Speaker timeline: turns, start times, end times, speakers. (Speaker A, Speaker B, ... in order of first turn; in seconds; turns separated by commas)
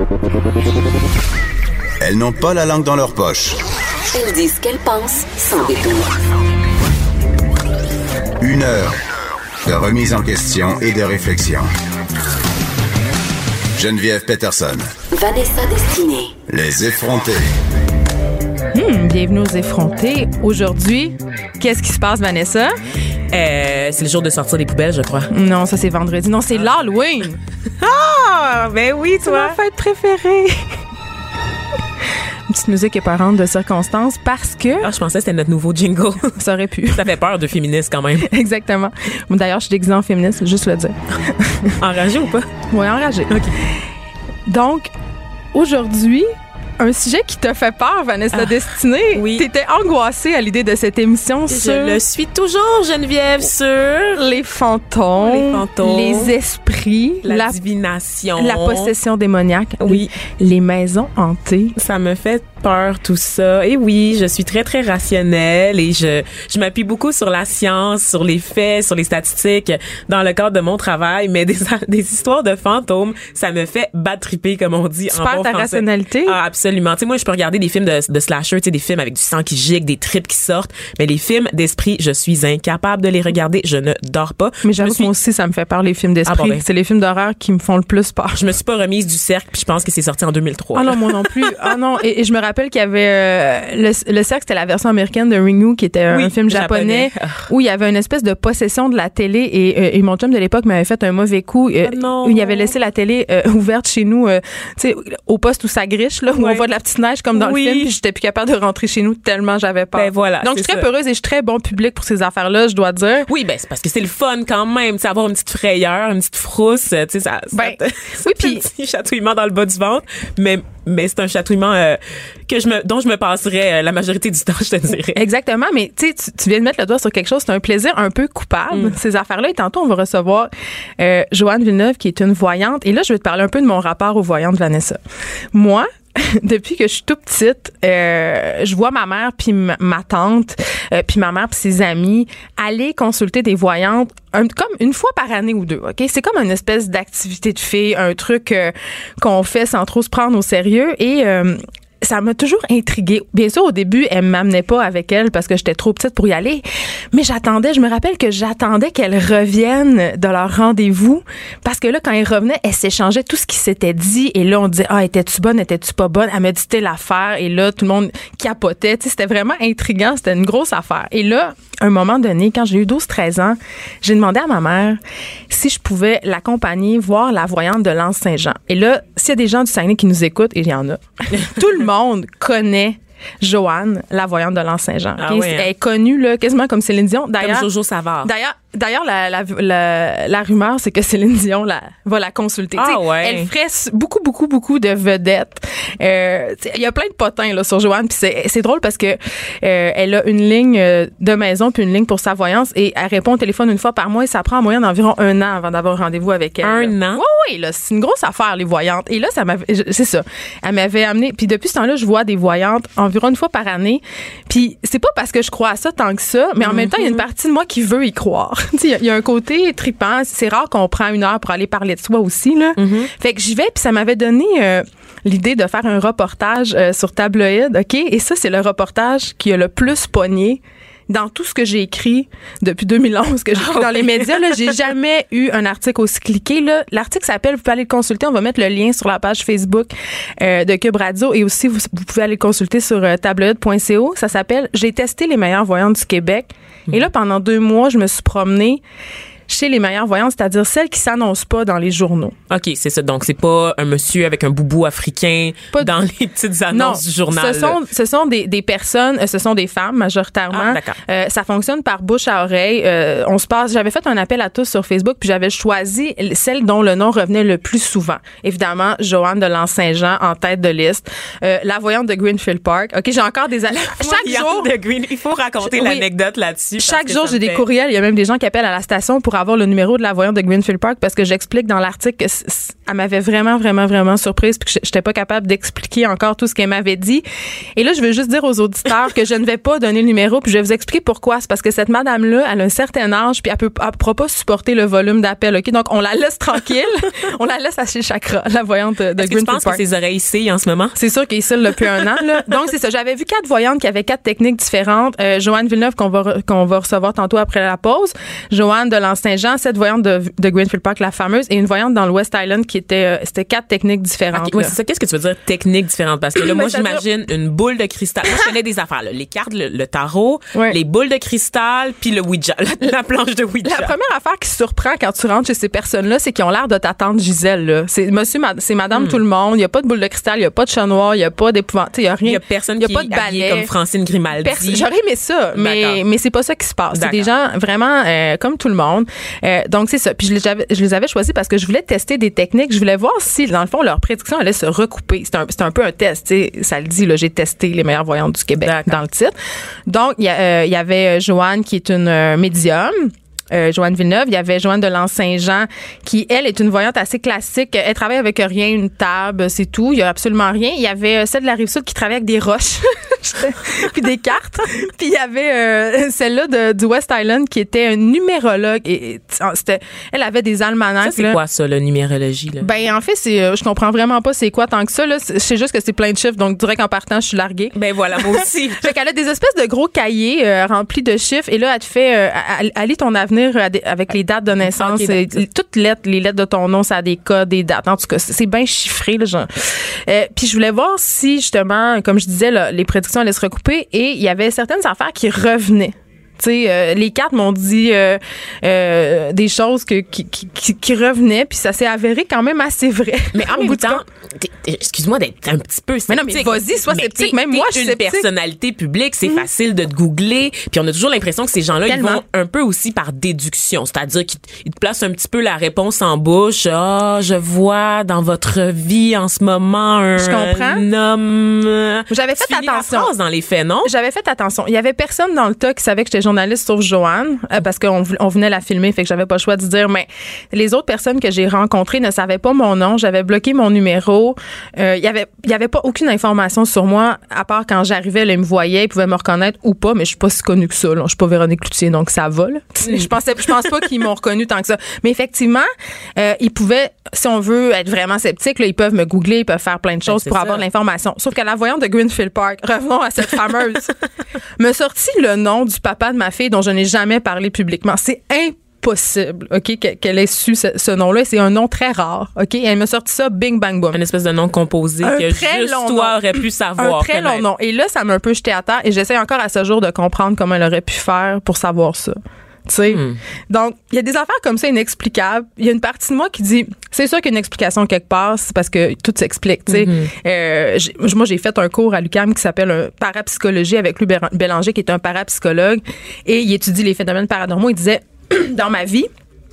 Speaker A: 2.0-3.6, Speaker B: 4.1-6.1, Speaker A: 8.4-9.0, Speaker A: 9.6-11.7, Speaker A: 13.8-14.9, Speaker B: 15.1-16.3, Speaker A: 16.5-17.5, Speaker C: 18.8-22.8, Speaker D: 23.3-25.3, Speaker C: 25.3-27.4, Speaker D: 27.8-29.6, Speaker C: 29.3-30.8, Speaker C: 32.5-34.9, Speaker D: 34.8-38.3, Speaker C: 36.4-37.0, Speaker C: 38.2-41.8, Speaker D: 41.8-42.5, Speaker C: 42.7-43.8, Speaker C: 44.5-44.9, Speaker C: 45.5-52.0, Speaker D: 48.3-49.5, Speaker D: 51.5-54.3, Speaker C: 54.1-57.6, Speaker D: 55.2-56.3, Speaker D: 57.2-58.9, Speaker C: 58.4-61.7, Speaker D: 59.8-60.1, Speaker D: 61.8-85.1, Speaker C: 75.1-76.4, Speaker C: 84.6-88.4, Speaker D: 86.3-86.6, Speaker D: 88.3-91.7, Speaker C: 90.8-113.3, Speaker D: 96.1-97.5, Speaker D: 101.9-102.7, Speaker D: 106.4-106.6, Speaker D: 107.3-107.9, Speaker D: 110.0-110.9, Speaker D: 113.3-125.2, Speaker C: 117.5-118.6, Speaker C: 125.2-135.0, Speaker D: 128.7-129.0, Speaker C: 135.5-187.7, Speaker D: 185.2-185.7, Speaker D: 187.4-188.3, Speaker C: 188.2-248.8, Speaker D: 192.8-193.5, Speaker D: 206.6-207.2, Speaker D: 216.6-217.2, Speaker D: 222.8-223.1, Speaker D: 233.6-234.6, Speaker C: 249.5-252.3, Speaker D: 252.5-257.8, Speaker C: 256.7-274.7, Speaker D: 260.5-261.0, Speaker D: 273.7-277.6, Speaker C: 275.6-276.0, Speaker C: 276.8-287.2, Speaker C: 287.8-299.8, Speaker D: 299.2-301.0, Speaker C: 301.0-314.7, Speaker D: 314.3-323.9, Speaker C: 316.4-317.0, Speaker C: 323.6-333.7, Speaker D: 328.9-329.2, Speaker D: 332.2-334.9, Speaker C: 334.4-349.3, Speaker D: 335.6-336.0, Speaker D: 336.9-337.3, Speaker D: 348.6-349.0, Speaker C: 349.9-371.4, Speaker D: 371.0-372.7, Speaker C: 372.6-377.8, Speaker D: 377.8-378.9, Speaker C: 378.3-404.0, Speaker D: 384.7-385.4, Speaker D: 403.3-423.9, Speaker C: 406.1-408.3, Speaker C: 411.9-412.2, Speaker C: 420.2-420.8, Speaker C: 422.1-423.1, Speaker C: 423.9-454.0, Speaker D: 450.1-450.6, Speaker C: 454.6-464.0, Speaker D: 463.9-467.4, Speaker C: 465.0-489.1, Speaker D: 472.9-473.2, Speaker D: 479.7-480.1